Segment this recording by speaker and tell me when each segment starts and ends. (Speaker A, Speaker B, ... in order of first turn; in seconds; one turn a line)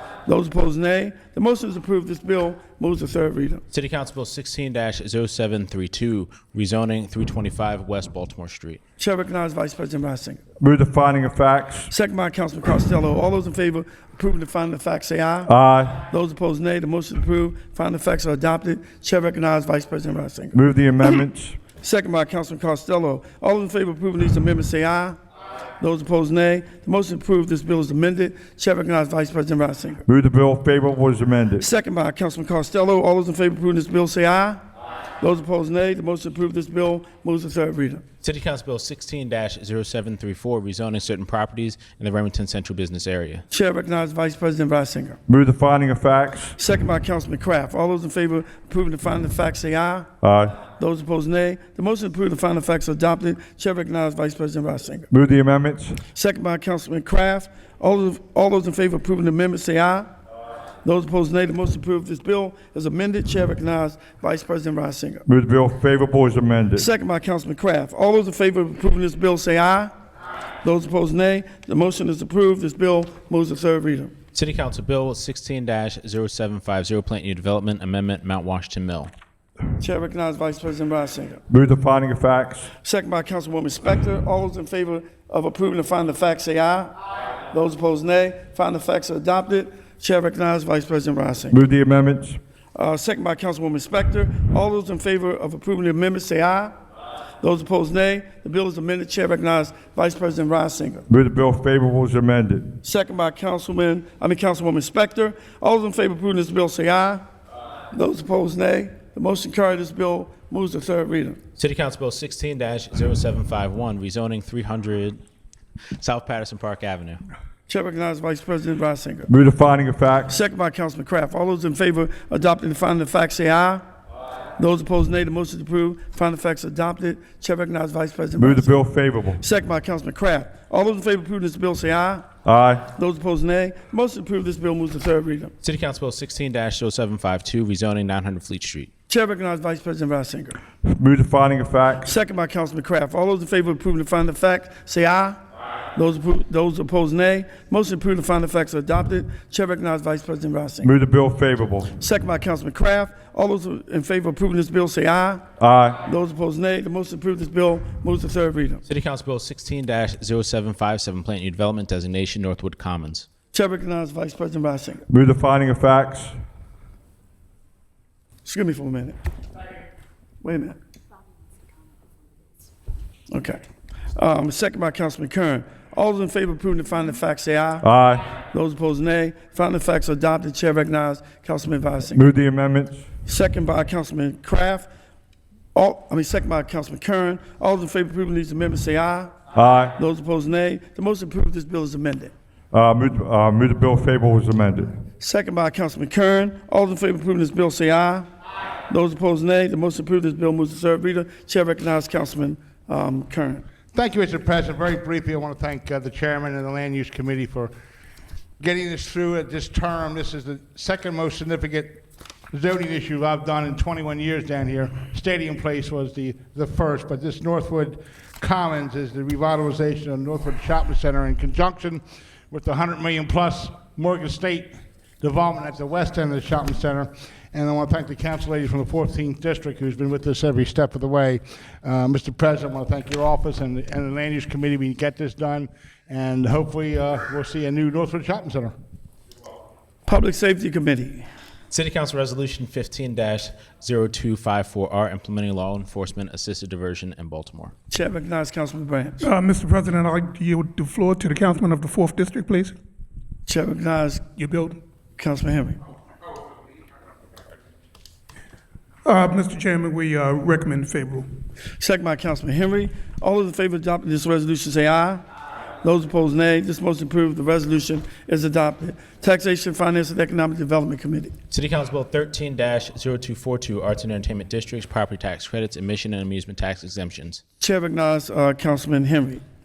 Speaker A: 0.2-3.6
Speaker B: 3.7-8.8
Speaker A: 9.0-10.4
Speaker C: 10.6-11.9
Speaker A: 11.9-21.2
Speaker C: 15.5-16.0
Speaker C: 20.5-21.6
Speaker A: 21.8-25.2
Speaker A: 25.8-30.0
Speaker C: 30.1-31.6
Speaker A: 31.6-34.6
Speaker A: 35.2-38.0
Speaker B: 38.2-43.4
Speaker A: 43.5-45.2
Speaker C: 45.3-46.5
Speaker A: 46.6-50.1
Speaker C: 50.2-50.6
Speaker A: 50.6-55.1
Speaker C: 55.1-56.0
Speaker A: 56.1-60.1
Speaker A: 60.8-65.2
Speaker C: 65.3-66.9
Speaker A: 66.8-69.9
Speaker A: 70.6-74.1
Speaker B: 74.3-79.1
Speaker A: 79.8-81.4
Speaker C: 81.5-82.7
Speaker A: 82.8-86.9
Speaker A: 87.5-91.6
Speaker C: 91.5-92.4
Speaker A: 92.7-96.8
Speaker A: 97.4-101.0
Speaker C: 101.1-102.7
Speaker A: 102.8-107.2
Speaker A: 107.9-111.4
Speaker B: 111.6-115.2
Speaker B: 116.0-117.2
Speaker A: 117.7-119.3
Speaker C: 119.3-120.3
Speaker A: 120.3-123.8
Speaker A: 124.6-128.7
Speaker C: 128.4-129.4
Speaker A: 129.4-132.3
Speaker C: 132.4-132.8
Speaker A: 132.9-135.5
Speaker B: 135.6-138.9
Speaker A: 139.1-140.6
Speaker C: 140.8-142.1
Speaker A: 142.0-145.4
Speaker A: 145.9-150.9
Speaker C: 150.8-151.9
Speaker A: 152.0-155.4
Speaker C: 155.6-156.0
Speaker A: 156.0-158.8
Speaker B: 158.9-163.3
Speaker A: 163.5-165.0
Speaker C: 165.1-166.3
Speaker A: 168.4-169.2
Speaker A: 170.4-170.8
Speaker A: 173.3-173.6
Speaker A: 174.1-177.9
Speaker C: 177.8-178.3
Speaker A: 178.4-182.3
Speaker C: 182.1-183.0
Speaker A: 183.2-184.9
Speaker A: 185.7-189.3
Speaker C: 189.5-189.9
Speaker A: 189.9-192.3
Speaker C: 192.7-194.9
Speaker A: 195.2-198.3
Speaker A: 198.9-203.6
Speaker D: 203.9-207.7
Speaker D: 208.6-238.7
Speaker A: 240.1-241.3
Speaker B: 241.7-247.7
Speaker A: 247.9-249.2
Speaker E: 249.2-252.7
Speaker A: 253.4-254.3
Speaker E: 254.3-254.8
Speaker A: 255.2-255.8
Speaker E: 259.0-261.3
Speaker A: 261.8-265.2
Speaker A: 265.8-271.3
Speaker B: 271.5-277.4
Speaker A: 277.6-279.4